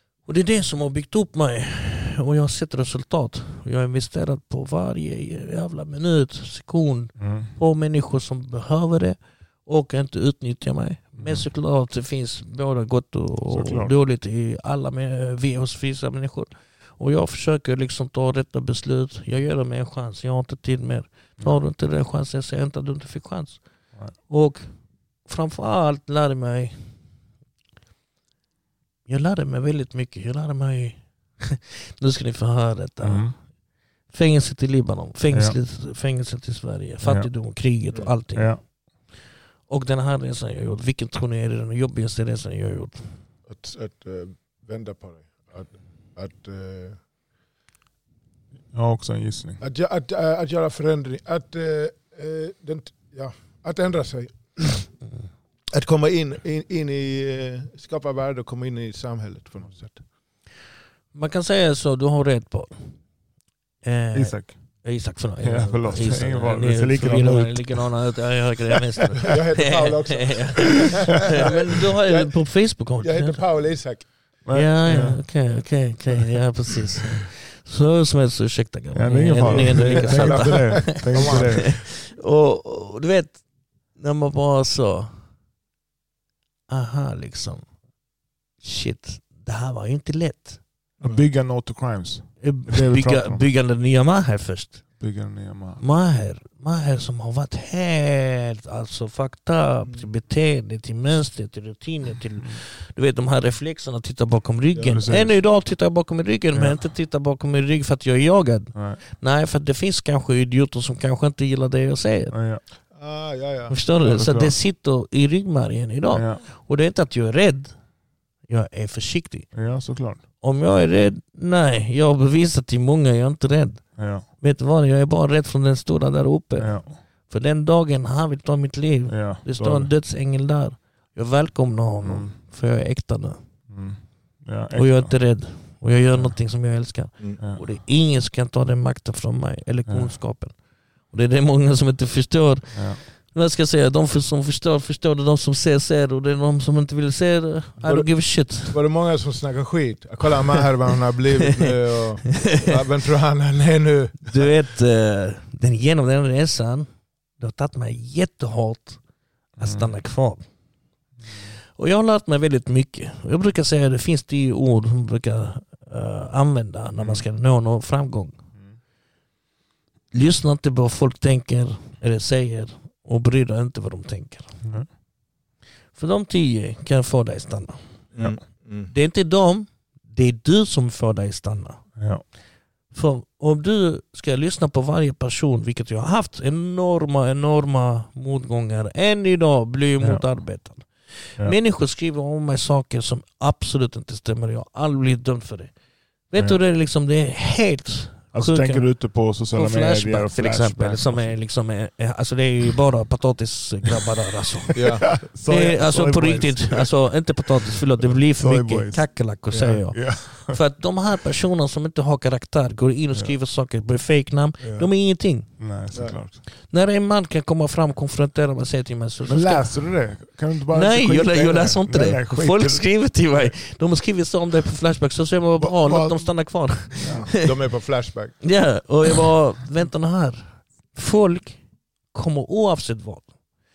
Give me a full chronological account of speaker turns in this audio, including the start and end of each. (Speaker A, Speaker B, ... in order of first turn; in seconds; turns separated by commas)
Speaker A: 0.2-27.1, Speaker B: 7.2-7.5, Speaker B: 11.2-11.5, Speaker B: 13.5-13.9, Speaker A: 29.1-33.5, Speaker B: 33.0-33.4, Speaker A: 34.1-43.2, Speaker B: 35.3-35.6, Speaker B: 37.0-37.5, Speaker B: 38.3-38.6, Speaker C: 43.5-47.0, Speaker B: 48.7-49.6, Speaker C: 49.6-55.0, Speaker A: 55.0-55.3, Speaker C: 55.7-60.0, Speaker A: 61.1-63.1, Speaker A: 63.8-73.4, Speaker B: 64.1-64.8, Speaker B: 65.4-68.1, Speaker C: 69.3-74.4, Speaker B: 74.4-75.6, Speaker A: 74.5-85.2, Speaker B: 78.9-81.8, Speaker C: 79.3-81.8, Speaker A: 86.7-87.7, Speaker A: 88.6-90.6, Speaker B: 91.0-93.4, Speaker C: 91.0-91.3, Speaker A: 92.4-95.0, Speaker B: 95.0-95.8, Speaker A: 95.8-112.6, Speaker B: 104.8-105.4, Speaker B: 106.5-106.9, Speaker B: 108.7-109.0, Speaker B: 112.3-112.6, Speaker C: 112.9-113.8, Speaker A: 113.7-117.9, Speaker B: 114.0-114.6, Speaker B: 116.1-116.4, Speaker A: 118.4-119.6, Speaker B: 119.5-120.2, Speaker A: 120.4-133.4, Speaker B: 124.0-124.3, Speaker B: 126.6-127.0, Speaker B: 129.1-129.9, Speaker B: 132.0-132.3, Speaker B: 133.7-135.2, Speaker A: 134.7-148.8, Speaker B: 139.9-140.1, Speaker B: 142.7-143.0, Speaker C: 147.8-154.5, Speaker A: 152.5-152.8, Speaker A: 154.2-159.0, Speaker A: 159.6-160.5, Speaker B: 159.6-159.9, Speaker B: 161.2-161.5, Speaker A: 161.7-168.4, Speaker B: 166.9-167.2, Speaker A: 170.1-174.6, Speaker B: 174.6-174.9, Speaker A: 175.9-182.0, Speaker C: 178.1-178.9, Speaker B: 182.0-182.2, Speaker A: 182.9-195.7, Speaker B: 190.0-190.3, Speaker A: 196.3-215.6, Speaker B: 198.3-201.3, Speaker C: 204.7-205.2, Speaker B: 205.0-210.6, Speaker B: 214.6-216.4, Speaker C: 215.9-216.2, Speaker A: 216.6-227.6, Speaker B: 219.3-223.5, Speaker B: 225.6-227.3, Speaker C: 227.3-228.7, Speaker A: 228.4-233.3